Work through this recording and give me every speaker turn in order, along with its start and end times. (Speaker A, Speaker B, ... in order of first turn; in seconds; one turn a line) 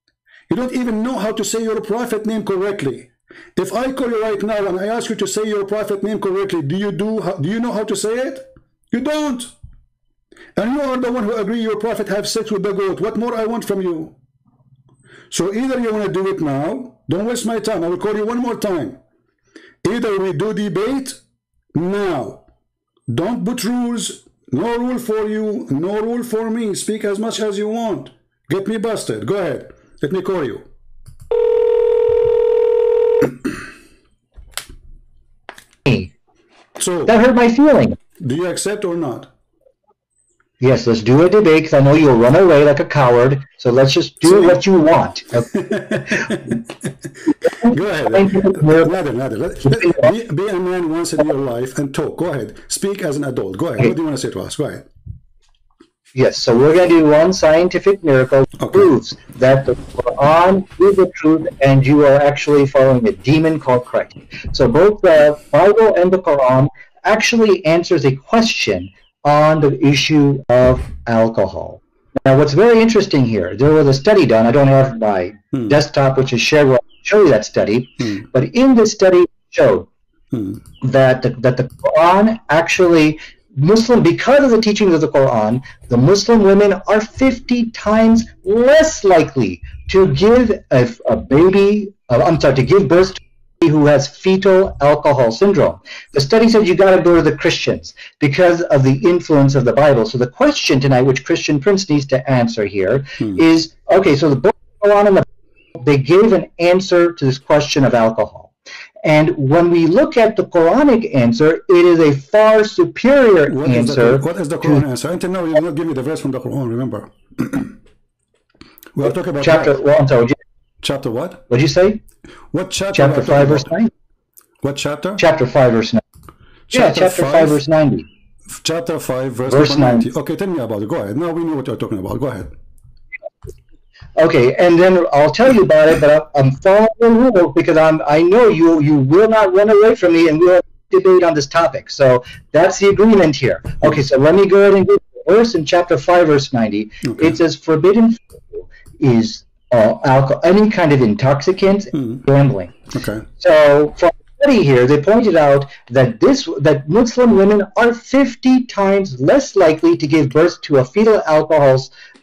Speaker A: 0.5-9.5
Speaker A: 10.6-14.1
Speaker A: 15.3-19.0
Speaker A: 19.8-21.2
Speaker A: 21.7-22.4
Speaker A: 23.1-30.6
Speaker B: 35.9-36.1
Speaker A: 36.8-37.1
Speaker B: 37.1-38.0
Speaker A: 38.2-39.3
Speaker B: 40.6-46.3
Speaker A: 44.2-44.6
Speaker A: 45.5-46.6
Speaker A: 47.5-54.9
Speaker B: 47.6-48.9
Speaker B: 56.1-79.9
Speaker A: 58.6-58.9
Speaker A: 75.5-75.8
Speaker A: 80.3-80.6
Speaker B: 80.8-108.5
Speaker B: 109.0-114.8
Speaker A: 113.5-117.7
Speaker A: 119.0-119.8
Speaker B: 119.4-120.4
Speaker A: 120.8-121.5
Speaker B: 121.5-122.0
Speaker A: 122.5-123.7
Speaker B: 122.9-123.9
Speaker A: 124.6-125.2
Speaker B: 125.2-126.0
Speaker A: 126.7-127.6
Speaker B: 126.7-128.1
Speaker A: 128.6-132.5
Speaker B: 129.5-130.1
Speaker B: 134.2-152.8
Speaker A: 147.0-147.3
Speaker A: 151.9-152.2
Speaker A: 152.9-153.2
Speaker B: 153.4-161.9